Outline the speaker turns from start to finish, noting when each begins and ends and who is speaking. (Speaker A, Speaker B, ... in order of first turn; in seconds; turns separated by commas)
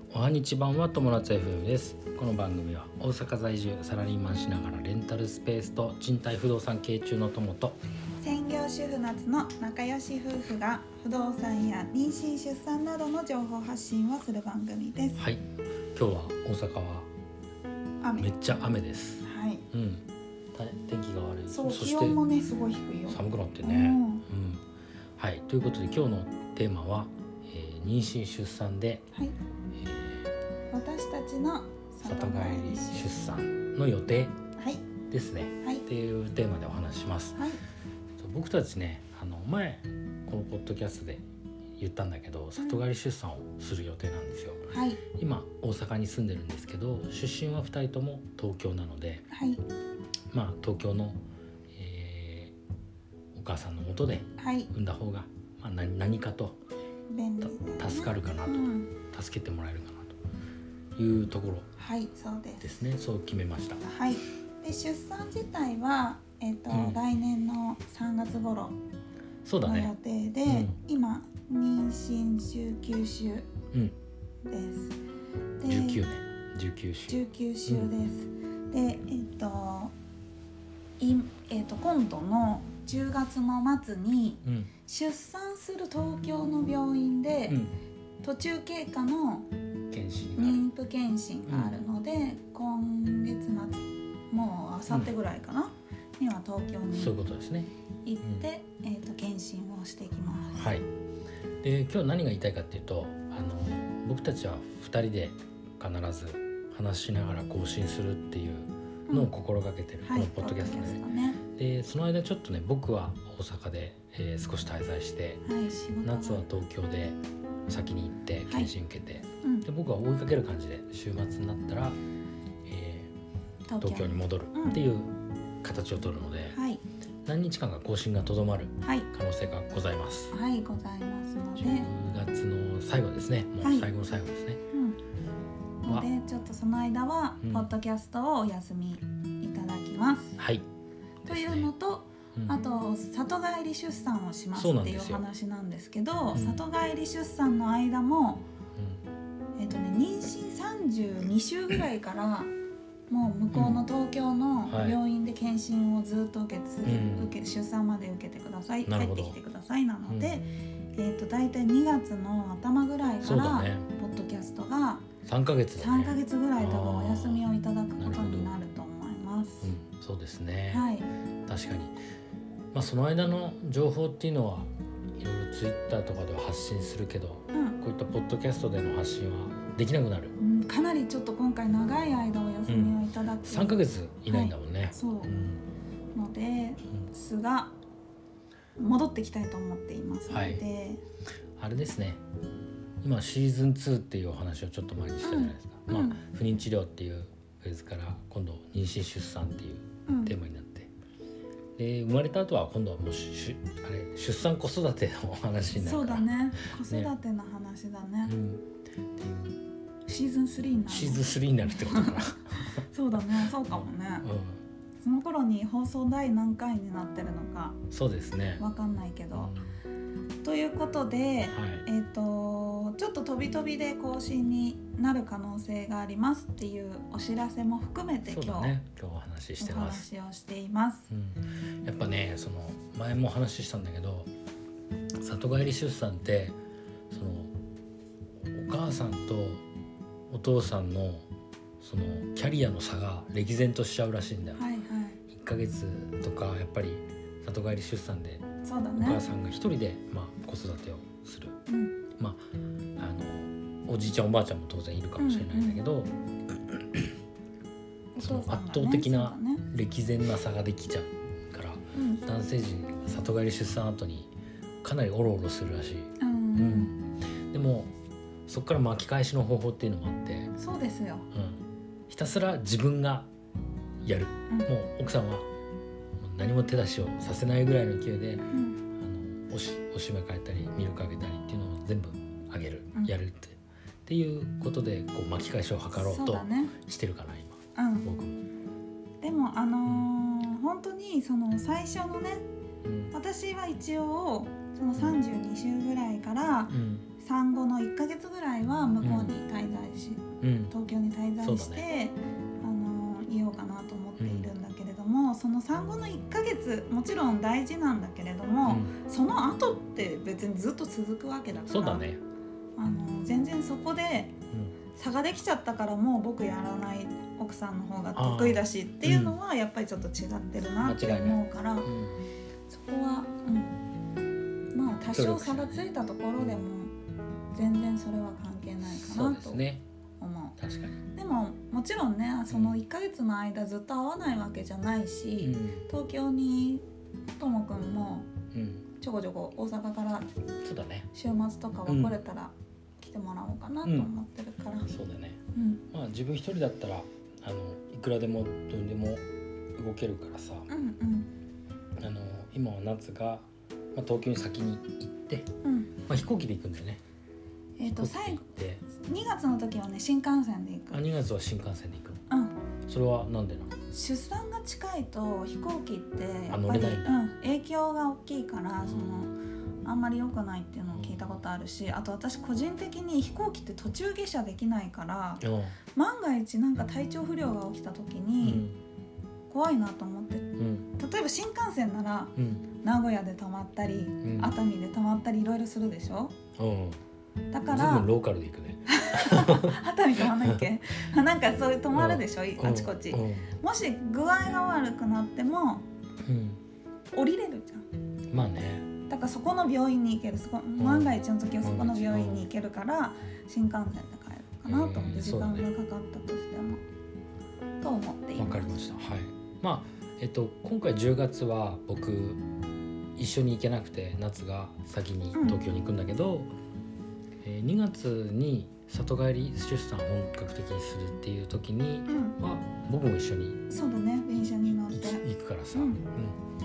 Speaker A: 0.1-7.8, Speaker B: 8.2-15.2, Speaker A: 15.2-17.1, Speaker B: 18.0-18.3, Speaker A: 18.2-22.2, Speaker B: 19.2-19.6, Speaker B: 21.5-24.2, Speaker A: 23.1-24.6, Speaker A: 25.2-29.1, Speaker A: 29.8-30.3, Speaker B: 30.7-33.1, Speaker A: 32.0-34.4, Speaker B: 34.6-34.9, Speaker A: 35.1-37.4, Speaker A: 38.2-41.2, Speaker A: 41.8-49.3, Speaker B: 42.6-42.8, Speaker B: 44.7-45.0, Speaker B: 49.3-49.6, Speaker A: 50.3-51.2, Speaker A: 51.7-52.5, Speaker A: 53.3-56.6, Speaker B: 54.4-54.7, Speaker B: 57.1-58.9, Speaker A: 57.6-60.2, Speaker A: 61.0-61.7, Speaker B: 61.8-62.7, Speaker A: 62.6-63.8, Speaker B: 63.8-68.8, Speaker A: 66.7-67.0, Speaker A: 69.5-69.9, Speaker B: 69.6-73.5, Speaker A: 70.5-70.8, Speaker B: 74.5-75.0, Speaker B: 75.6-76.0, Speaker A: 75.7-77.9, Speaker B: 77.1-79.9, Speaker B: 81.0-87.6, Speaker A: 84.4-84.7, Speaker A: 87.5-87.8, Speaker B: 88.2-89.5, Speaker A: 89.9-90.6, Speaker B: 90.4-97.2, Speaker A: 91.5-91.8, Speaker A: 96.9-97.7, Speaker B: 98.0-100.7, Speaker A: 100.5-100.9, Speaker A: 101.6-111.0, Speaker B: 110.0-111.4, Speaker A: 111.5-115.4, Speaker B: 115.5-116.5, Speaker A: 116.0-122.0, Speaker B: 118.5-118.7, Speaker A: 122.7-123.1, Speaker B: 123.7-124.8, Speaker A: 123.8-126.6, Speaker B: 126.5-126.8, Speaker A: 127.2-130.3, Speaker B: 128.8-129.1, Speaker B: 130.3-131.9, Speaker A: 131.6-134.6, Speaker B: 133.6-133.9, Speaker B: 134.7-135.0, Speaker B: 135.8-140.4, Speaker A: 137.4-137.7, Speaker A: 140.4-140.6, Speaker A: 141.2-141.7, Speaker B: 141.3-148.4, Speaker A: 144.6-145.2, Speaker A: 146.3-146.6, Speaker A: 148.8-149.0, Speaker B: 149.6-152.5, Speaker B: 153.1-165.1, Speaker A: 153.5-153.8, Speaker A: 154.7-155.0, Speaker A: 156.8-157.3, Speaker A: 158.9-159.4, Speaker A: 160.1-160.4, Speaker A: 163.2-163.9, Speaker A: 165.2-167.5, Speaker B: 165.8-169.7, Speaker A: 168.0-168.5, Speaker A: 169.6-170.8, Speaker B: 170.7-171.1, Speaker A: 171.5-172.0, Speaker A: 172.7-180.3, Speaker B: 180.4-185.3, Speaker A: 182.7-185.6, Speaker B: 186.2-187.7, Speaker B: 188.8-191.0, Speaker A: 190.3-190.6, Speaker A: 191.6-192.2, Speaker A: 193.0-200.9, Speaker B: 195.2-196.2, Speaker B: 200.1-200.3, Speaker A: 201.8-207.1, Speaker B: 205.8-208.3, Speaker A: 208.3-208.7, Speaker A: 209.2-209.6, Speaker B: 210.1-214.3, Speaker A: 210.9-212.8, Speaker A: 213.7-214.6, Speaker B: 215.0-217.8, Speaker A: 217.9-218.6, Speaker B: 218.6-219.5, Speaker A: 219.3-219.8, Speaker B: 220.4-228.8, Speaker A: 221.5-221.8, Speaker A: 228.2-230.1, Speaker B: 229.6-231.1, Speaker A: 231.1-234.3, Speaker A: 235.2-236.6, Speaker A: 237.1-237.5, Speaker A: 238.5-239.6, Speaker A: 240.3-241.3, Speaker A: 241.8-244.6, Speaker B: 244.6-245.2, Speaker A: 245.3-248.4, Speaker B: 248.6-249.2, Speaker A: 249.0-251.6, Speaker B: 251.7-252.0, Speaker A: 252.2-252.4, Speaker A: 253.0-257.1, Speaker B: 255.2-255.8, Speaker B: 258.2-259.6, Speaker A: 258.2-264.3, Speaker B: 261.9-262.2, Speaker A: 264.8-267.9, Speaker B: 266.2-266.9, Speaker A: 268.5-270.5, Speaker B: 270.6-271.3, Speaker A: 271.3-273.3, Speaker A: 274.0-275.5, Speaker A: 276.2-288.4, Speaker B: 278.5-278.8, Speaker B: 285.9-286.8, Speaker B: 287.8-288.1, Speaker B: 289.2-292.4, Speaker A: 292.8-293.1, Speaker B: 293.1-312.1, Speaker A: 296.7-297.1, Speaker A: 299.0-299.3, Speaker A: 300.4-300.7, Speaker A: 301.4-301.9, Speaker A: 304.2-304.5, Speaker A: 308.7-308.9, Speaker A: 311.7-312.2, Speaker B: 312.8-314.4, Speaker B: 314.9-321.9, Speaker A: 318.1-319.4, Speaker A: 320.8-322.2, Speaker B: 322.7-323.8, Speaker B: 324.7-326.9, Speaker A: 325.0-325.8, Speaker B: 327.5-329.6, Speaker A: 328.8-329.8, Speaker B: 330.2-330.6, Speaker A: 330.6-331.0, Speaker B: 331.1-336.8, Speaker A: 332.5-332.8, Speaker A: 335.4-335.9, Speaker B: 337.4-338.3, Speaker A: 338.5-338.9, Speaker B: 339.0-340.3, Speaker A: 340.6-341.1, Speaker B: 341.1-344.9, Speaker A: 341.9-342.2, Speaker A: 343.8-344.1, Speaker A: 344.9-345.4, Speaker B: 345.5-345.8, Speaker A: 345.9-349.2, Speaker A: 349.8-350.7, Speaker B: 350.7-351.3, Speaker A: 352.0-355.5, Speaker B: 355.6-355.9, Speaker A: 356.1-357.0, Speaker B: 357.8-361.0, Speaker A: 357.9-358.9, Speaker A: 360.9-362.2, Speaker A: 362.9-363.7, Speaker B: 363.9-375.4, Speaker A: 366.5-367.2, Speaker A: 368.9-369.3, Speaker A: 370.9-371.4, Speaker A: 375.4-375.8, Speaker B: 375.9-378.7, Speaker A: 378.4-378.8, Speaker B: 379.5-386.3, Speaker A: 380.6-380.9, Speaker A: 382.4-382.7, Speaker A: 384.2-384.6, Speaker A: 386.6-387.0, Speaker B: 387.5-388.1, Speaker A: 387.7-390.6, Speaker B: 388.9-395.9, Speaker A: 391.9-393.6, Speaker A: 396.2-396.6, Speaker B: 397.1-397.9, Speaker A: 398.3-398.9, Speaker B: 399.1-406.8, Speaker A: 400.8-402.5, Speaker A: 404.7-405.7, Speaker B: 407.8-408.8, Speaker A: 408.4-412.4, Speaker A: 413.2-416.5, Speaker A: 417.4-423.6, Speaker B: 422.1-422.4, Speaker B: 423.7-425.2, Speaker A: 424.9-426.4, Speaker B: 425.7-426.0